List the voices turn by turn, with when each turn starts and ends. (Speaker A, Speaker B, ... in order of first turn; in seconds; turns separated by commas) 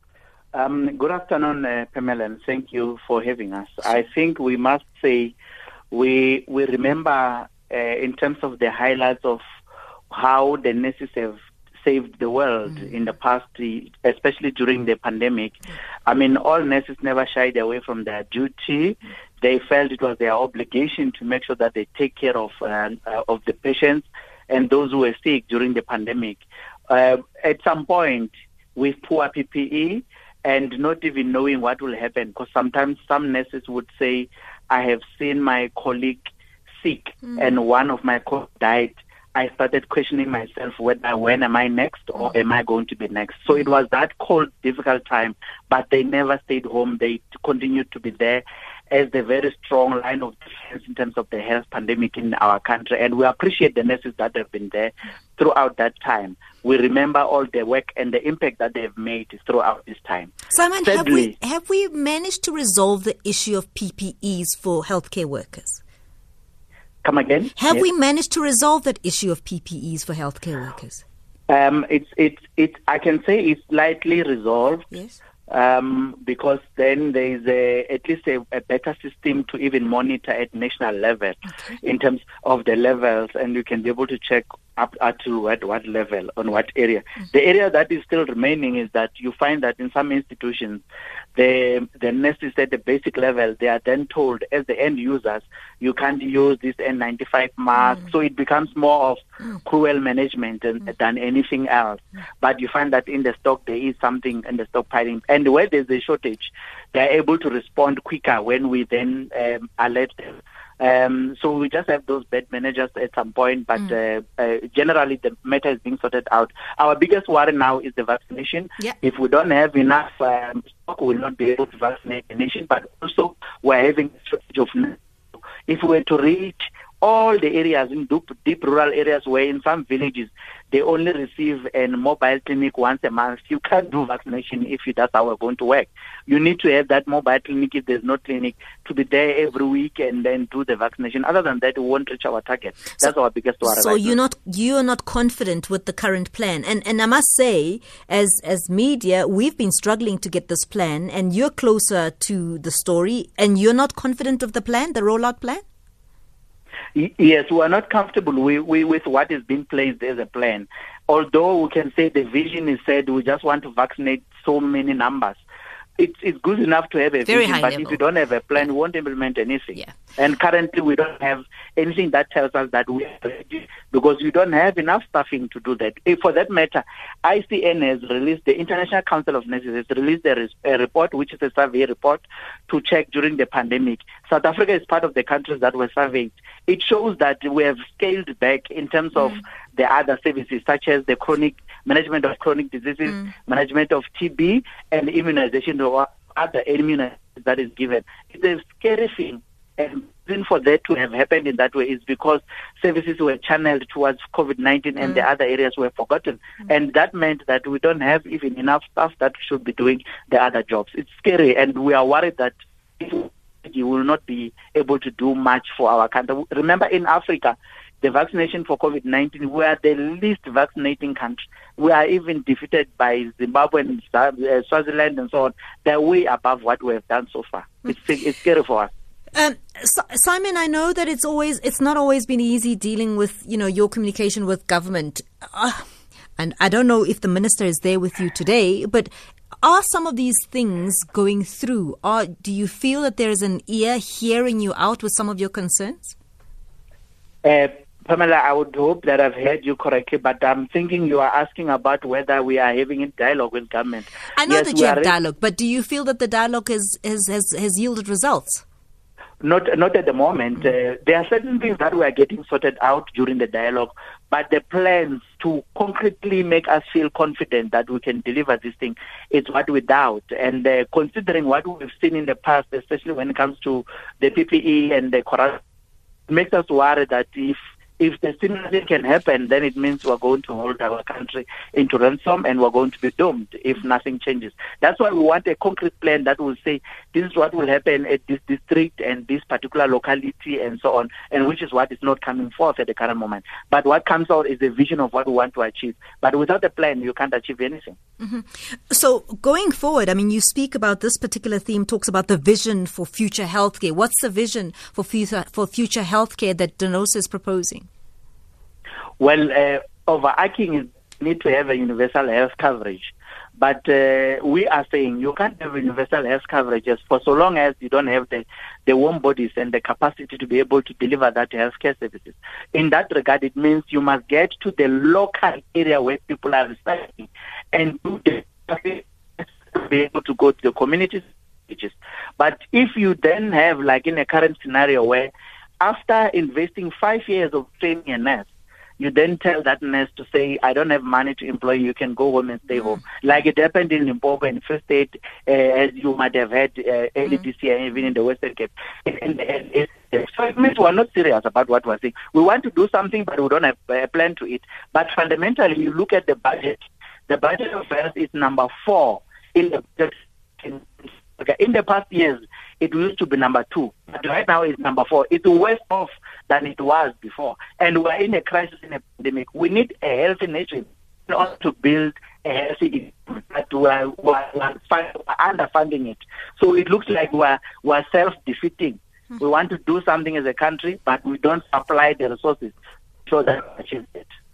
Speaker A: 0.5-5.3, Speaker A: 5.9-9.4, Speaker A: 10.1-61.3, Speaker B: 60.5-65.8, Speaker A: 67.0-67.9, Speaker B: 67.6-71.0, Speaker A: 71.5-74.9, Speaker B: 74.9-75.2, Speaker A: 75.5-90.8, Speaker B: 81.5-81.8, Speaker A: 91.4-125.0, Speaker A: 125.7-144.2, Speaker B: 143.6-155.6, Speaker A: 156.9-165.4, Speaker A: 166.0-228.9, Speaker B: 167.2-168.0, Speaker B: 229.3-235.8, Speaker B: 236.4-239.1, Speaker B: 239.6-246.2, Speaker A: 247.4-255.2, Speaker B: 254.4-258.6, Speaker A: 259.4-275.6, Speaker A: 276.3-298.0, Speaker B: 298.2-307.9, Speaker A: 309.2-338.5, Speaker A: 339.0-382.8, Speaker A: 383.3-384.3